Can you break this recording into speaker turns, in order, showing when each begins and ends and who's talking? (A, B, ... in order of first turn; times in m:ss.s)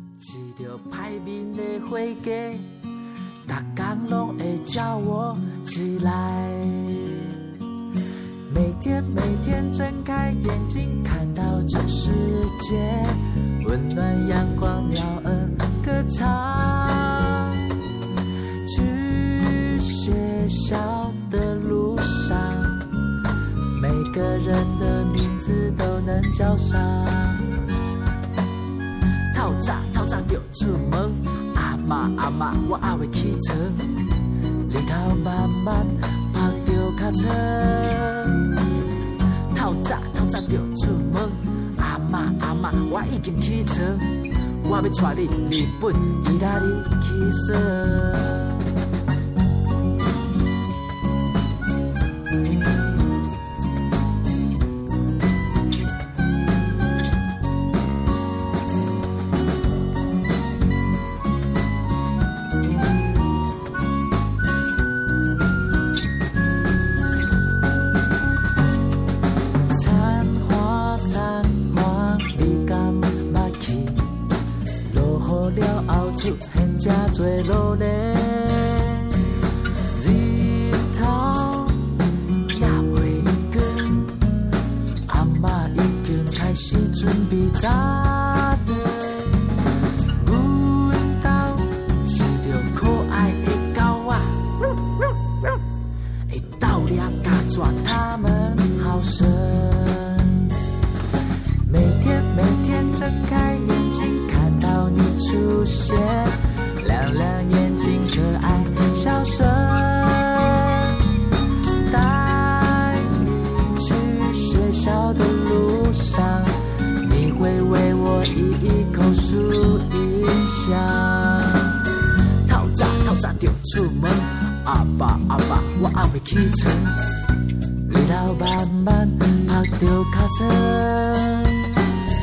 0:00.2-0:02.7 A
0:03.5-0:07.4 A
0:08.5-0:17.7 A
0:18.6-0:23.0 A
0:23.7-0:27.5 A
0:29.3-0:38.6 A
0:39.5-0:48.6 A
1:09.7-1:14.1 A
1:14.8-1:19.2 A
1:19.9-1:24.3 A
1:25.1-1:29.5 A
1:30.1-1:35.5 A
1:36.3-1:40.6 A
1:41.6-1:51.0 A
1:51.9-2:01.8 A
2:02.4-2:07.0 A
2:07.9-2:11.7 A